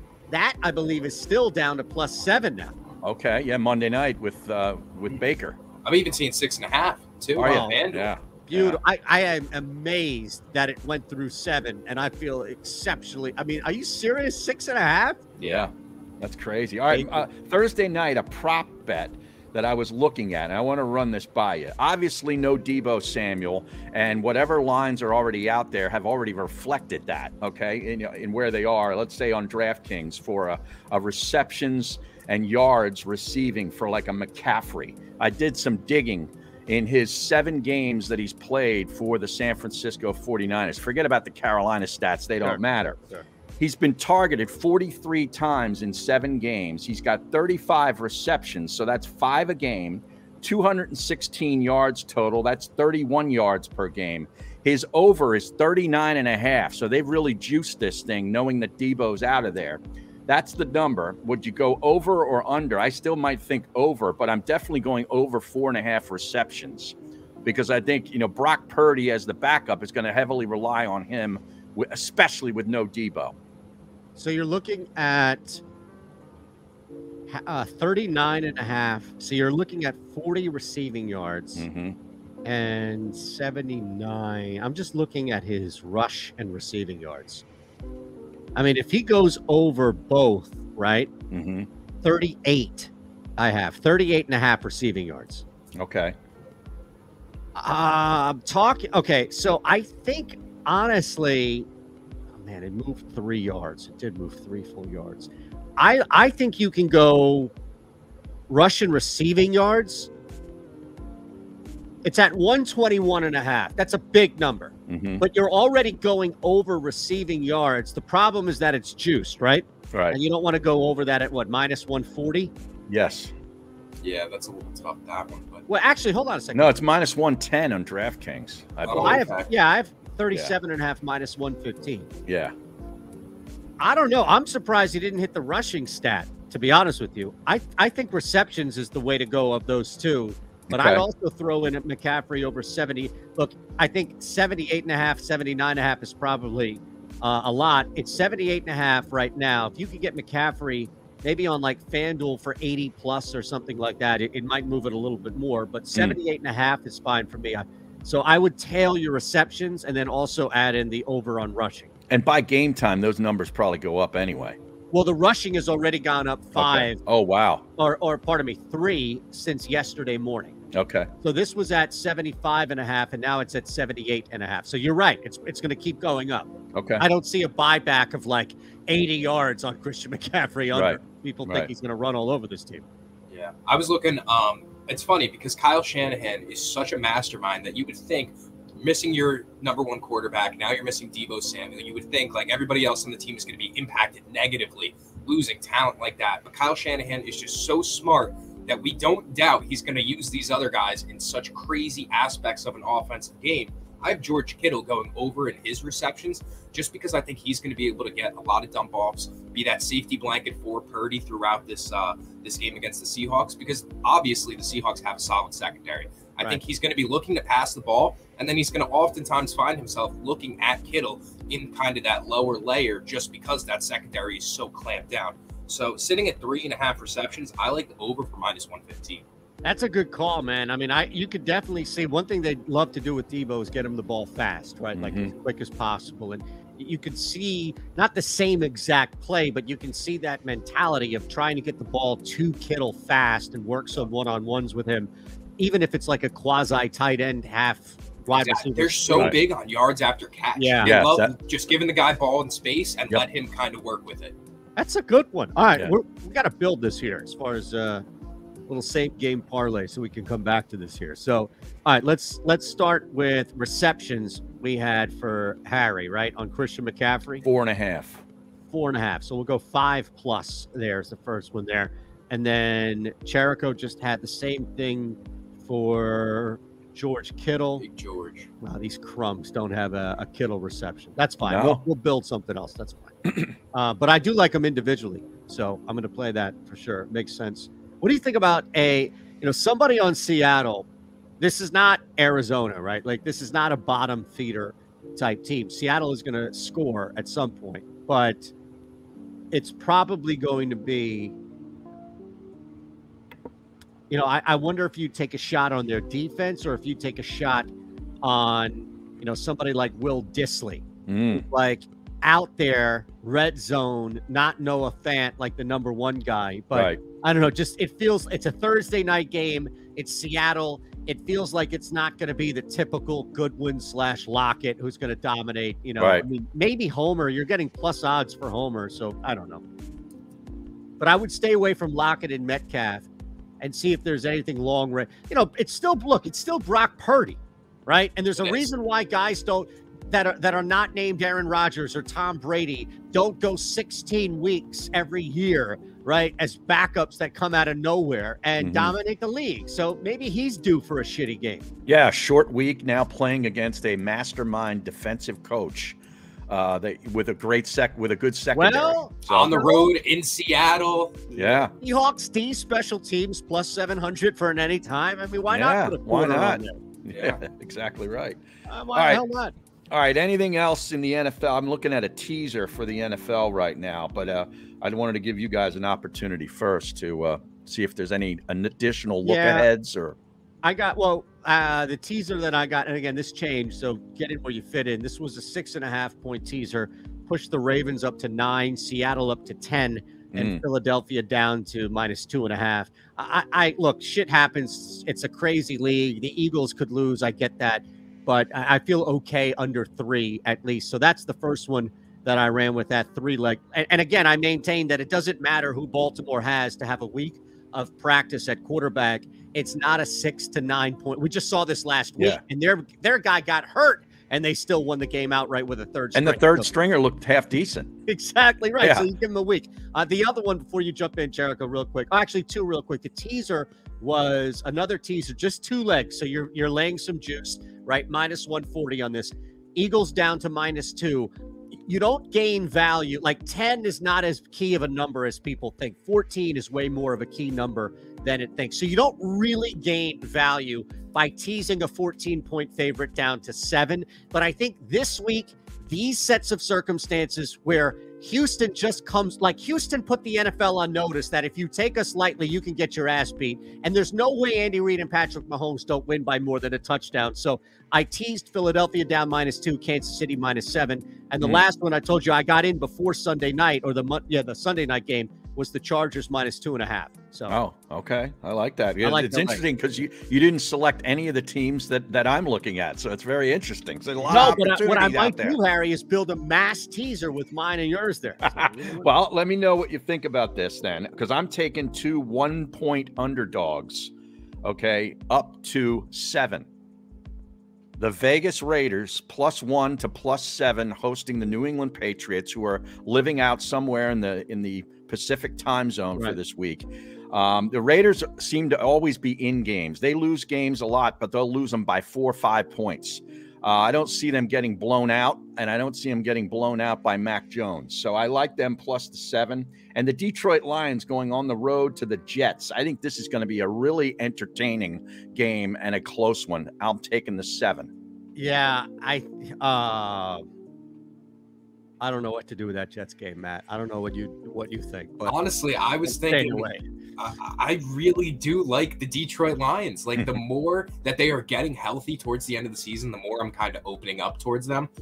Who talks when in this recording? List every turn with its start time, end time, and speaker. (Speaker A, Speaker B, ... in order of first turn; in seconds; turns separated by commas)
Speaker A: 0.3-2.8, Speaker B: 3.0-5.6, Speaker C: 5.8-8.1, Speaker B: 7.3-8.8, Speaker A: 7.4-7.8, Speaker A: 8.5-15.3, Speaker C: 15.4-15.7, Speaker B: 15.4-43.0, Speaker A: 16.9-17.2, Speaker A: 42.4-43.2, Speaker B: 43.6-73.3, Speaker A: 74.2-75.6, Speaker A: 77.3-81.7, Speaker B: 81.5-82.0, Speaker A: 82.4-87.4, Speaker A: 88.5-91.1, Speaker B: 91.3-91.7, Speaker A: 92.0-95.4, Speaker B: 95.8-96.1, Speaker A: 97.5-101.7, Speaker A: 102.3-107.5, Speaker A: 108.5-110.1, Speaker A: 112.0-122.5, Speaker B: 114.9-115.2, Speaker B: 119.9-120.2, Speaker B: 122.9-123.3, Speaker C: 124.0-125.6, Speaker A: 125.7-126.7, Speaker B: 126.5-129.3, Speaker C: 128.8-129.5, Speaker A: 128.9-132.1, Speaker B: 132.3-132.5, Speaker A: 133.8-161.9, Speaker B: 140.7-141.0, Speaker B: 162.1-164.6, Speaker A: 164.9-167.0, Speaker B: 166.5-167.6, Speaker A: 167.8-170.6, Speaker B: 170.7-171.1, Speaker A: 171.2-182.8, Speaker B: 176.7-177.1, Speaker B: 180.7-181.7, Speaker C: 183.3-229.2, Speaker A: 229.6-249.4, Speaker B: 234.9-235.3, Speaker C: 248.3-254.3, Speaker B: 249.1-249.4, Speaker A: 250.6-251.0, Speaker B: 250.8-251.3, Speaker A: 254.8-258.0, Speaker A: 258.7-267.4, Speaker B: 267.4-268.2, Speaker A: 268.7-277.8, Speaker C: 277.8-278.5, Speaker A: 278.6-283.1, Speaker B: 281.4-281.8, Speaker B: 283.2-283.5, Speaker A: 283.7-290.9, Speaker A: 291.4-298.5, Speaker A: 299.5-301.3, Speaker A: 304.1-307.7, Speaker A: 308.2-329.6, Speaker B: 311.1-311.4, Speaker B: 316.7-317.0, Speaker B: 326.0-326.2, Speaker A: 331.0-333.1, Speaker A: 333.6-351.7, Speaker B: 348.6-348.9, Speaker B: 351.9-356.0, Speaker B: 356.5-359.7, Speaker A: 358.5-359.9, Speaker C: 359.3-361.3, Speaker B: 361.3-361.7, Speaker A: 361.4-366.8, Speaker B: 365.5-368.4, Speaker C: 367.1-367.4, Speaker A: 368.7-369.5, Speaker B: 368.9-369.2, Speaker B: 369.9-380.1, Speaker A: 379.2-379.7, Speaker A: 380.6-416.7, Speaker B: 390.3-390.6, Speaker B: 416.1-417.9, Speaker A: 418.1-431.3, Speaker B: 418.8-419.1, Speaker A: 431.8-467.6, Speaker B: 467.5-475.6, Speaker A: 469.0-469.6, Speaker A: 474.3-479.1, Speaker B: 478.4-484.1, Speaker B: 484.6-486.7, Speaker B: 488.0-517.9, Speaker A: 518.4-520.5, Speaker A: 522.0-525.3, Speaker C: 525.2-534.9, Speaker A: 526.0-526.8